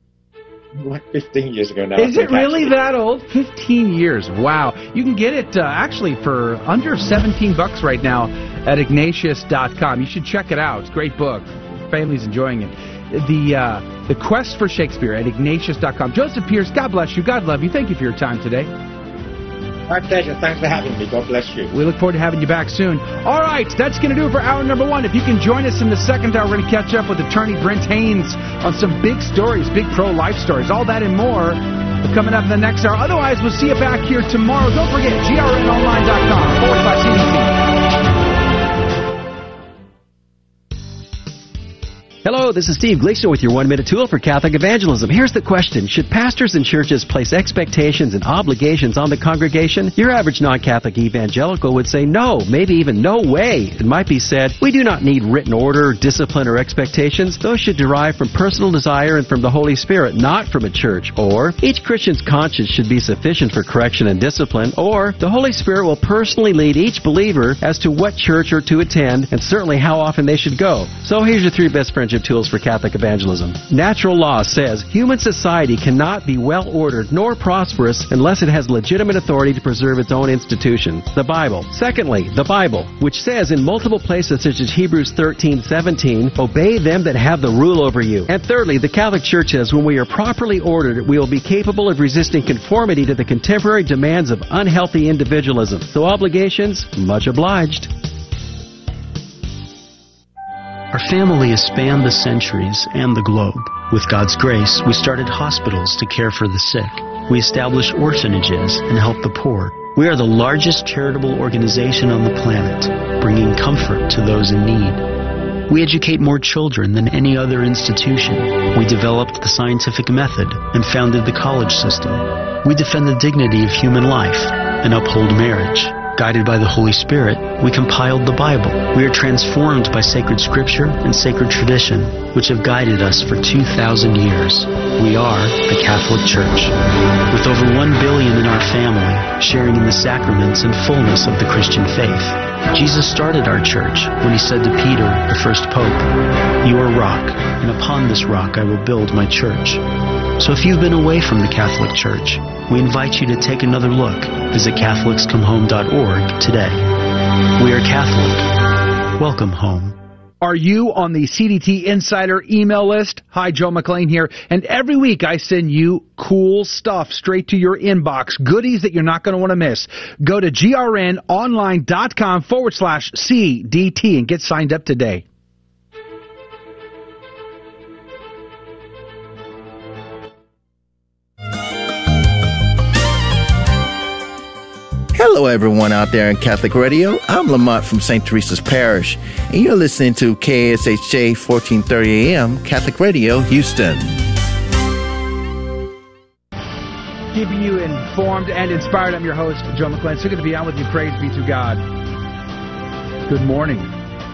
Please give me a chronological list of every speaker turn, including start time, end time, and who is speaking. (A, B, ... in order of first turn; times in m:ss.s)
0:00.8-0:02.7 A
0:02.0-0:18.7 B
0:19.9-0:21.7 A
0:21.7-0:37.6 B
0:42.2-1:37.9 C
1:40.9-1:55.0 D
1:55.7-2:16.7 D
2:17.3-2:29.8 D
2:30.4-2:36.9 D
2:37.6-2:38.5 D
2:39.2-2:39.9 D
2:40.4-2:55.2 B
3:05.1-3:14.1 E
3:17.3-3:21.8 B
3:23.3-3:23.9 B